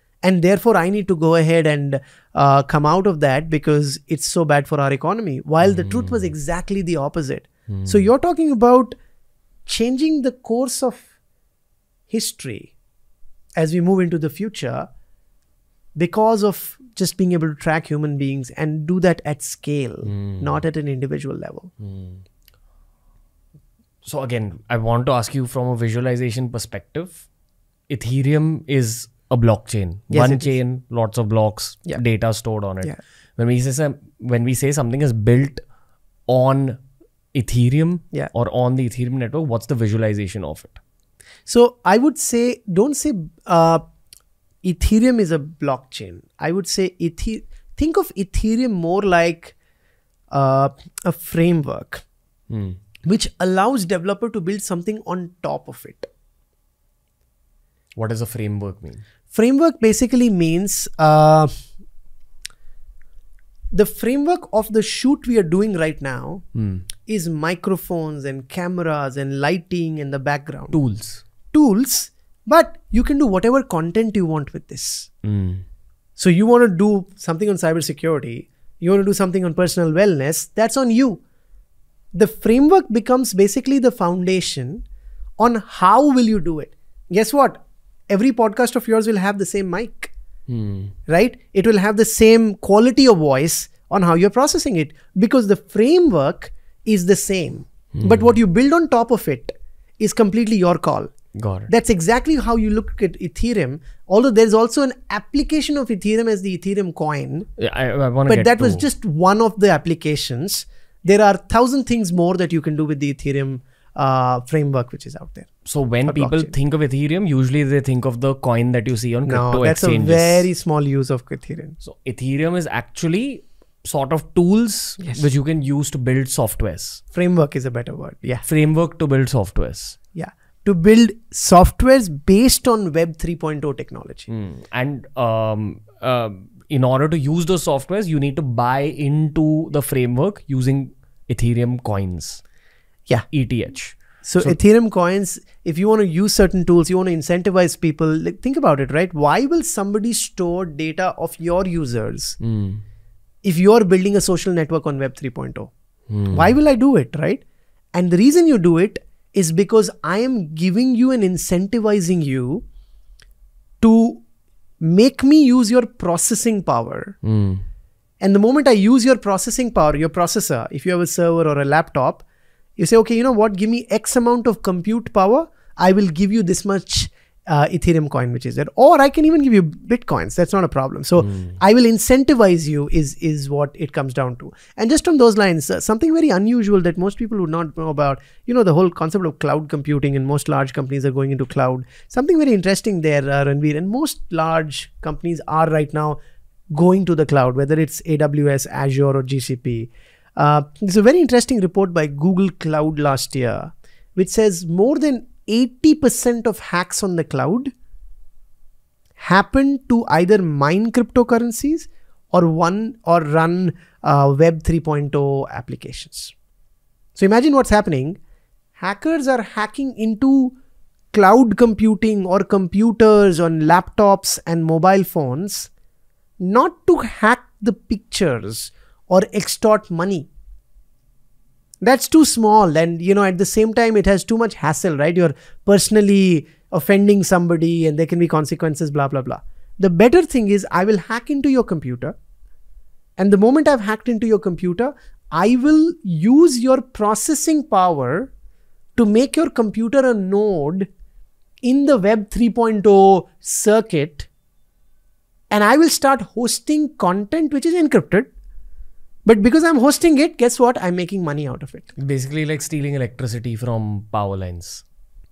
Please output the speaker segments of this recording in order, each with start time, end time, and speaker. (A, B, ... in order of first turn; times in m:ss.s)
0:00.2-0:08.9 A
0:05.6-0:06.3 B
0:07.7-0:08.1 B
0:09.6-0:11.0 A
0:12.1-0:12.7 A
0:13.6-0:14.9 A
0:15.9-0:21.7 A
0:20.0-0:20.6 B
0:21.8-0:22.2 B
0:24.0-0:27.2 B
0:27.9-0:35.6 B
0:30.1-0:30.5 A
0:36.3-0:36.8 B
0:37.3-0:40.8 B
0:41.5-0:43.8 A
0:44.6-0:49.5 A
0:50.3-0:52.0 A
0:52.5-0:52.8 B
0:53.0-0:56.1 A
0:58.0-0:59.0 B
0:59.3-1:01.5 A
1:03.7-1:06.4 A
1:06.5-1:06.8 B
1:07.0-1:10.8 A
1:10.7-1:11.2 B
1:11.5-1:15.1 A
1:15.2-1:15.6 B
1:16.2-1:21.2 A
1:22.1-1:24.8 A
1:25.4-1:27.6 A
1:28.1-1:30.1 A
1:30.5-1:30.9 B
1:31.1-1:41.1 A
1:37.9-1:38.4 B
1:41.3-1:41.7 B
1:41.7-1:47.5 A
1:47.6-1:48.8 B
1:48.2-1:55.5 A
1:55.6-2:00.5 B
1:56.0-1:56.5 A
1:59.2-2:01.8 A
2:01.8-2:07.0 B
2:05.0-2:05.2 A
2:07.1-2:08.4 A
2:08.4-2:10.0 B
2:10.1-2:14.3 A
2:14.3-2:22.4 B
2:23.3-2:24.6 B
2:24.2-2:32.4 A
2:32.4-2:32.8 B
2:33.4-2:35.7 A
2:36.1-2:36.6 B
2:36.3-2:37.4 A
2:37.9-2:42.6 A
2:43.8-2:44.2 A
2:44.8-2:47.2 A
2:47.2-2:47.6 B
2:48.2-2:52.2 A
2:52.8-3:16.2 A
3:01.2-3:01.6 B
3:16.7-3:27.7 A
3:29.2-3:36.3 A
3:37.2-3:38.2 A
3:38.8-3:40.5 A
3:41.1-3:45.7 A
3:46.4-3:50.3 A
3:51.8-4:02.1 A
4:03.2-4:08.3 A
4:09.0-4:10.9 A
4:11.6-4:14.3 A
4:15.5-4:18.3 A
4:19.2-4:21.9 A
4:22.0-4:24.8 B